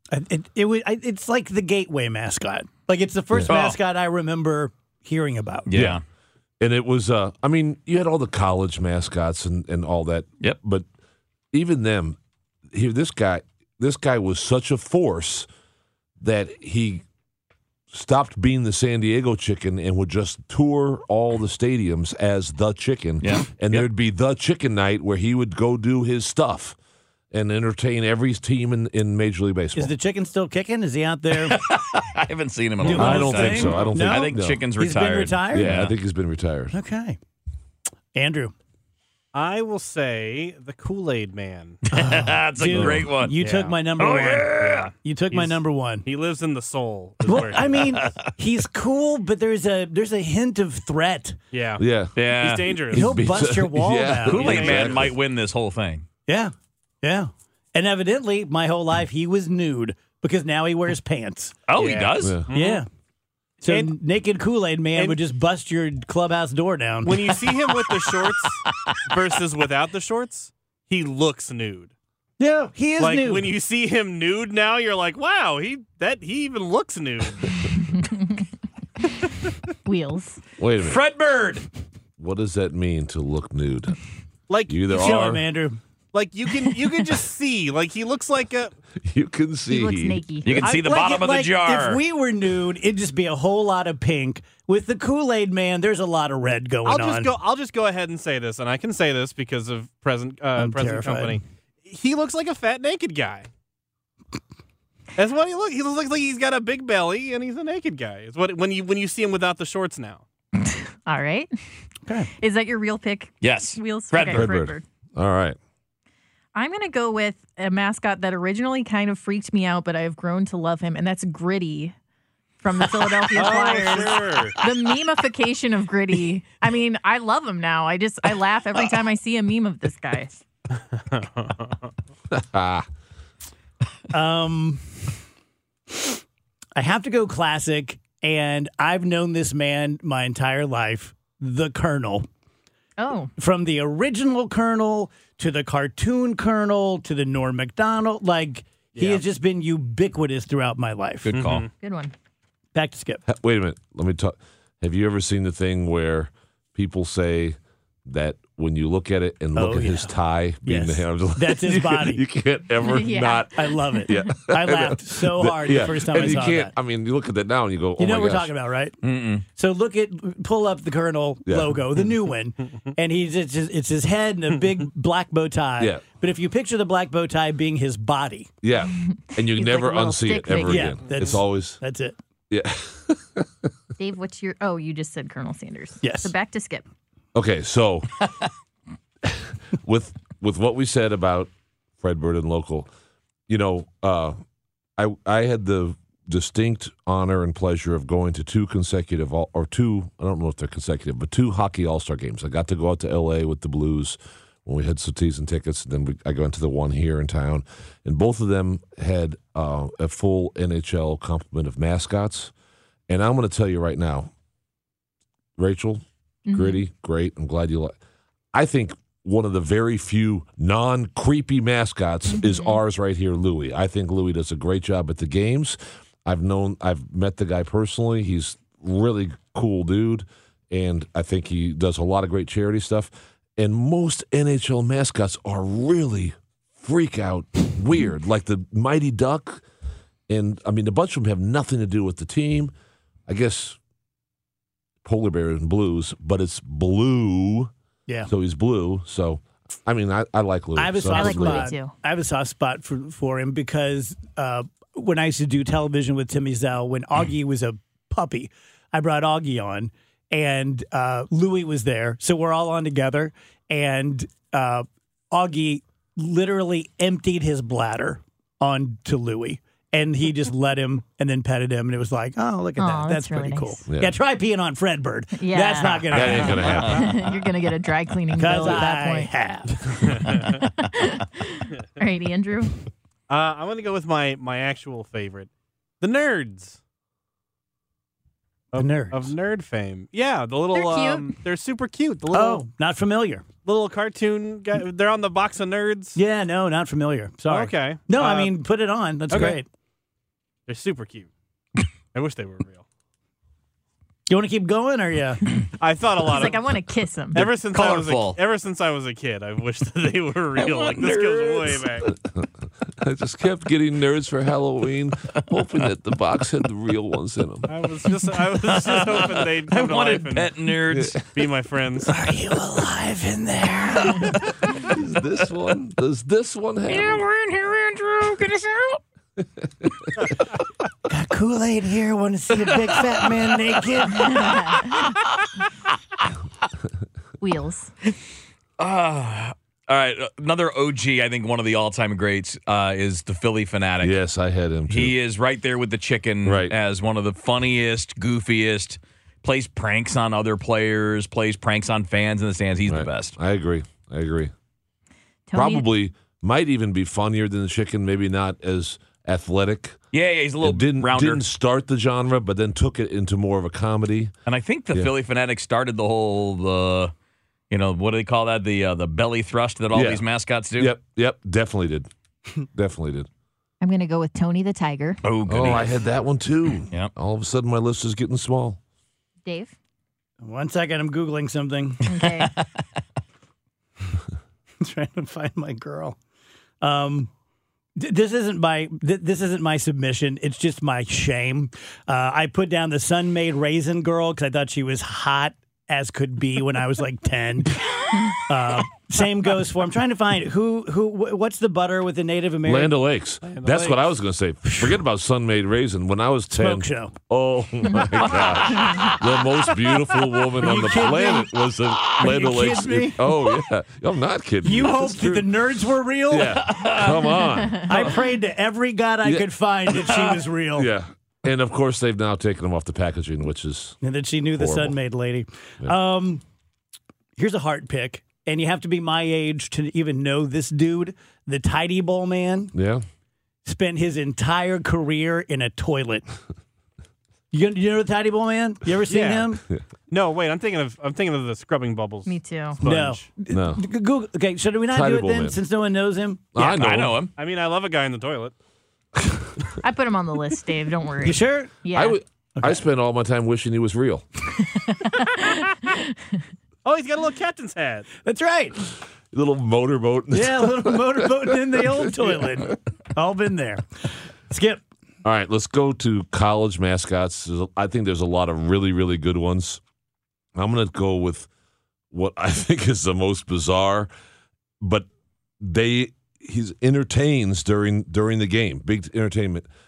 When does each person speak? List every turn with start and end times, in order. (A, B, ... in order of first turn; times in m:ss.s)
0:00.1-0:05.7 A
0:03.5-0:03.8 B
0:05.7-0:06.0 B
0:05.7-0:06.0 C
0:06.6-0:10.8 C
0:11.5-0:12.2 C
0:12.7-0:15.5 C
0:16.2-0:17.0 C
0:17.9-0:26.8 C
0:23.2-0:23.9 B
0:27.3-0:29.9 C
0:29.8-0:31.6 A
0:31.4-0:35.9 B
0:32.8-0:35.8 A
0:32.9-0:34.6 C
0:35.5-0:36.8 C
0:36.7-0:37.2 A
0:38.1-0:38.5 A
0:39.3-0:41.8 D
0:41.9-0:43.4 B
0:41.9-0:46.0 A
0:42.8-0:43.0 C
0:43.3-0:43.9 D
0:44.0-0:44.9 B
0:44.5-0:48.0 D
0:47.2-0:51.4 A
0:47.3-0:48.2 B
0:51.5-0:53.2 D
0:51.8-0:55.1 C
0:52.2-0:52.9 B
0:52.9-0:54.8 A
0:54.3-0:56.0 B
0:54.4-0:55.1 D
0:56.3-1:01.5 A
1:01.7-1:02.4 B
1:01.7-1:02.8 D
1:02.2-1:02.5 C
1:02.5-1:02.9 A
1:03.6-1:07.4 A
1:03.7-1:03.9 D
1:07.0-1:11.9 D
1:12.4-1:13.5 A
1:13.0-1:17.7 D
1:18.1-1:18.4 E
1:19.8-1:20.4 E
1:20.6-1:21.0 C
1:20.8-1:21.6 B
1:22.2-1:24.0 C
1:24.5-1:25.3 D
1:24.7-1:25.4 C
1:24.9-1:25.8 A
1:26.1-1:28.8 D
1:29.0-1:30.6 C
1:29.7-1:30.6 E
1:30.4-1:32.0 B
1:30.6-1:37.3 A
1:36.8-1:43.5 D
1:40.5-1:41.4 A
1:45.2-1:50.2 D
1:50.6-1:51.5 E
1:52.4-1:54.8 E
1:53.4-1:54.5 B
1:54.3-1:55.6 C
1:56.5-2:01.9 E
2:02.6-2:10.4 E
2:03.3-2:04.6 D
2:11.1-2:11.8 D
2:12.3-2:12.8 C
2:14.1-2:14.8 A
2:16.8-2:22.3 A
2:23.0-2:23.3 E
2:23.4-2:31.3 A
2:28.9-2:29.2 D
2:31.3-2:31.6 B
2:31.3-2:31.7 D
2:31.8-2:32.1 E
2:32.7-2:33.2 A
2:33.3-2:48.5 C
2:39.5-2:42.2 A
2:42.8-2:44.3 E
2:43.5-2:46.7 A
2:48.0-2:49.0 A
2:49.0-2:49.4 B
2:49.5-2:58.5 A
2:51.4-2:51.8 C
2:58.6-3:01.8 C
2:59.0-3:01.0 E
3:00.6-3:02.2 A
3:02.5-3:03.5 C
3:04.0-3:06.8 E
3:06.0-3:06.3 A
3:07.3-3:08.3 C
3:09.2-3:12.9 C
3:13.5-3:14.4 C
3:15.0-3:32.5 C
3:33.1-3:34.3 C
3:35.6-3:37.9 C
3:36.5-3:36.8 E
3:38.5-3:59.6 C
3:42.3-3:42.8 E
4:00.3-4:02.7 C
4:03.3-4:03.8 C
4:05.0-4:07.7 C
4:08.3-4:11.7 C
4:10.8-4:36.5 A
4:11.1-4:11.9 E
4:32.8-4:33.8 E
4:33.9-4:34.1 C
4:35.3-4:39.3 E
4:36.1-4:37.1 C
4:36.2-4:37.1 D
4:38.4-4:40.0 A
4:40.1-4:40.6 D
4:40.6-4:42.7 E
4:43.3-4:46.8 D
4:48.7-4:52.6 D
4:48.7-4:49.3 A
4:50.7-4:51.3 E
4:52.3-4:53.4 A
4:53.6-4:56.2 D
4:56.1-4:59.6 A
4:57.5-4:58.5 D
4:59.3-4:59.6 D
5:00.7-5:01.3 D
5:02.1-5:02.8 D
5:04.3-5:05.4 A
5:05.8-5:06.7 D
5:06.2-5:07.5 E
5:07.3-5:12.1 D
5:07.4-5:08.4 B
5:10.5-5:11.9 B
5:13.0-5:17.7 C
5:17.6-5:20.5 D
5:18.4-5:21.2 B
5:20.9-5:21.2 C
5:21.3-5:22.1 D
5:22.1-5:24.5 A
5:24.8-5:27.2 C
5:26.9-5:29.0 B
5:29.4-5:30.1 C
5:31.1-5:34.4 A
5:34.2-5:34.9 E
5:34.5-5:35.0 B
5:37.4-5:37.9 E
5:38.8-5:44.2 B
5:44.0-5:45.2 C
5:44.9-5:53.4 B
5:46.4-5:46.7 C
5:52.9-5:54.5 C
5:55.5-5:55.8 E
5:55.5-6:00.0 C
6:00.1-6:01.4 B
6:00.6-6:04.3 C
6:04.4-6:07.1 B
6:07.7-6:10.9 B
6:09.9-6:10.2 C
6:10.8-6:12.1 C
6:12.7-6:13.3 C
6:13.8-6:15.2 E
6:15.2-6:16.0 B
6:15.5-6:18.8 C
6:19.4-6:19.7 E
6:20.4-6:22.1 A
6:22.0-6:22.5 E
6:24.8-6:26.2 A
6:26.8-6:27.3 A
6:28.0-6:43.0 A
6:42.6-6:55.5 C
6:43.4-6:44.0 D
6:46.6-6:47.1 A
6:48.2-6:49.2 B
6:50.6-6:51.5 A
6:52.2-6:53.3 A
6:54.6-6:56.7 A
6:56.3-6:58.0 C
6:56.6-6:57.2 B
6:57.8-7:00.9 A
6:59.2-7:00.0 C
7:00.7-7:04.0 C
7:04.0-7:06.4 A
7:04.5-7:05.0 C
7:07.4-7:12.7 A
7:12.7-7:13.0 C
7:13.6-7:16.3 A
7:17.5-7:19.6 A
7:19.1-7:19.5 D
7:20.1-7:23.2 D
7:22.2-7:22.8 E
7:22.8-7:26.4 A
7:23.5-7:23.8 C
7:24.9-7:25.6 C
7:26.5-7:27.2 C
7:26.6-7:27.3 B
7:27.4-7:28.5 D
7:29.8-7:32.2 E
7:31.2-7:31.7 A
7:31.9-7:34.3 C
7:34.8-7:36.1 E
7:36.8-7:38.1 D
7:38.2-7:38.8 A
7:39.3-7:42.3 C
7:40.3-7:43.8 A
7:44.5-7:44.8 A
7:45.2-7:49.8 C
7:50.5-7:51.5 C
7:52.1-7:54.1 C
7:54.8-7:55.1 C
7:55.6-7:59.7 C